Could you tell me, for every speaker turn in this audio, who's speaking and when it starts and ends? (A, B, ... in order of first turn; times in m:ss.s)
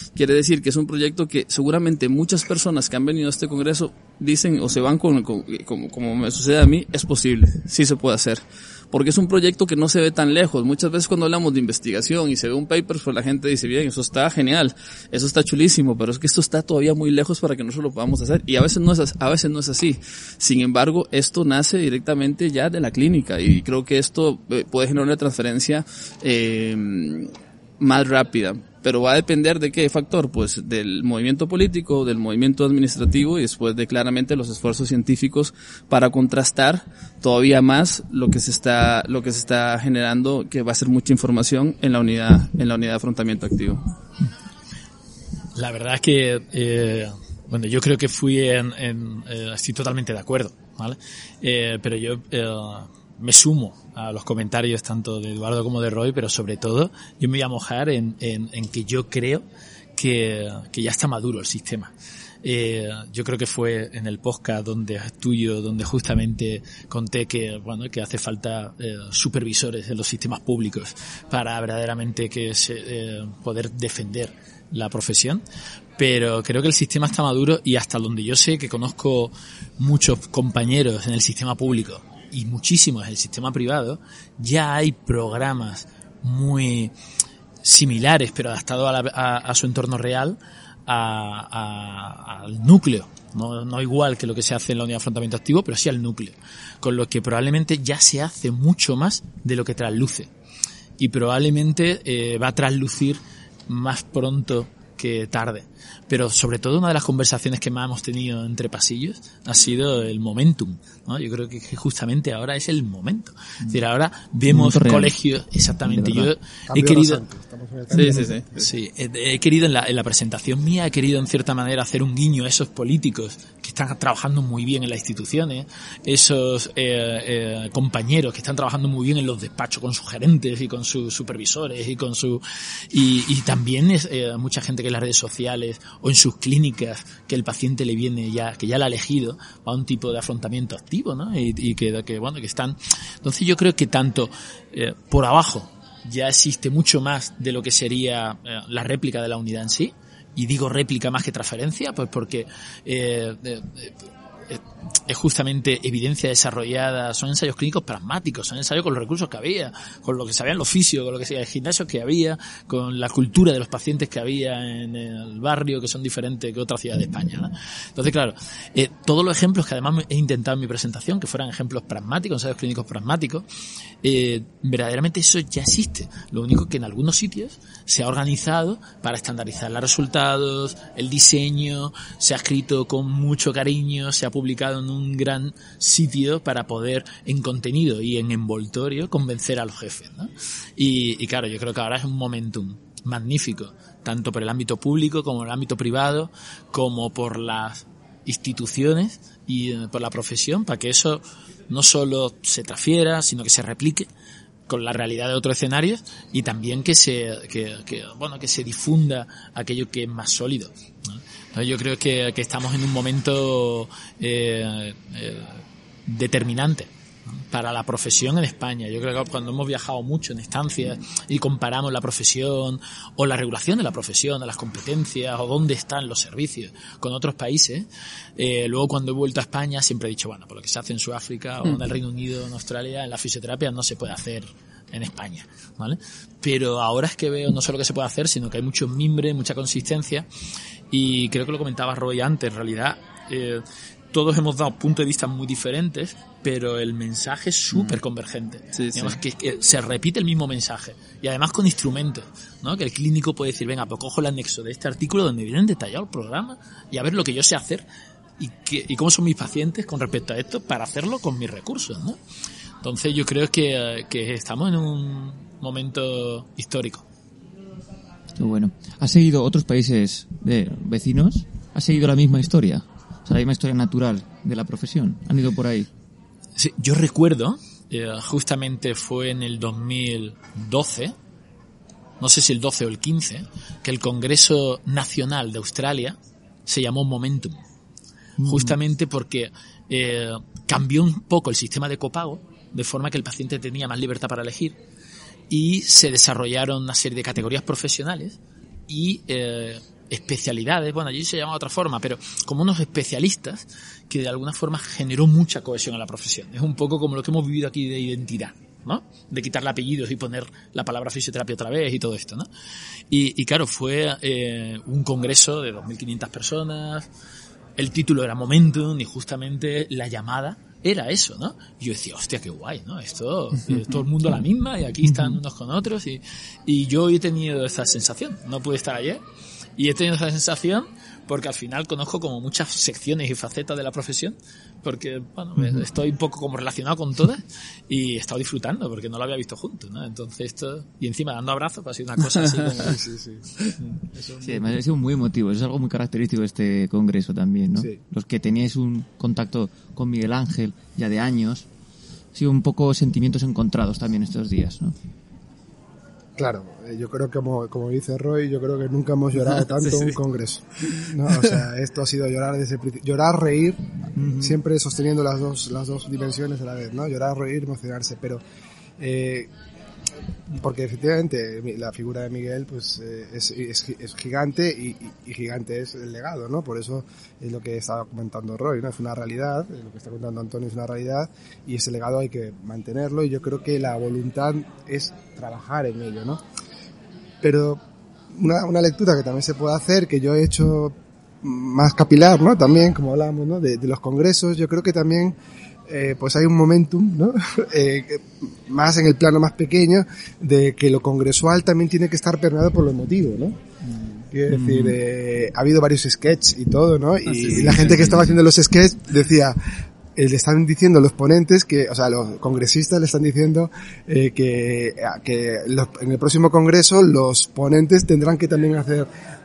0:00.2-0:43.9 A
0:45.6-0:59.4 B
1:00.0-1:01.9 B
1:02.4-1:15.4 B
1:16.0-1:26.9 B
1:27.6-1:40.3 B
1:41.0-1:57.2 B
1:54.5-1:55.2 C
1:55.9-1:56.3 C
1:56.7-1:58.6 D
1:57.9-1:58.6 A
1:58.0-2:53.5 B
2:54.0-3:24.1 B
3:24.7-4:00.3 B
4:00.9-4:17.8 B
4:08.7-4:09.2 A
4:18.4-4:22.2 B
4:22.8-4:27.0 B
4:28.4-4:35.9 C
4:36.6-4:41.2 B
4:42.2-4:47.6 B
4:48.4-4:48.8 C
4:48.4-4:54.8 B
4:55.5-5:12.5 B
5:13.1-5:17.1 B
5:17.8-5:29.2 B
5:29.8-5:43.0 B
5:42.7-5:43.6 D
5:43.8-5:44.6 B
5:44.4-5:51.7 C
5:52.3-5:55.0 C
5:56.4-6:03.9 D
5:59.8-6:00.2 A
6:04.2-6:04.6 C
6:04.4-6:08.4 D
6:09.0-6:09.5 D
6:10.5-6:26.4 D
6:27.4-6:27.8 D
6:28.3-6:35.4 D
6:35.9-6:43.6 D
6:43.9-6:44.2 B
6:44.3-6:49.6 D
6:44.5-6:45.0 C
6:47.3-6:48.3 A
6:50.2-6:59.1 D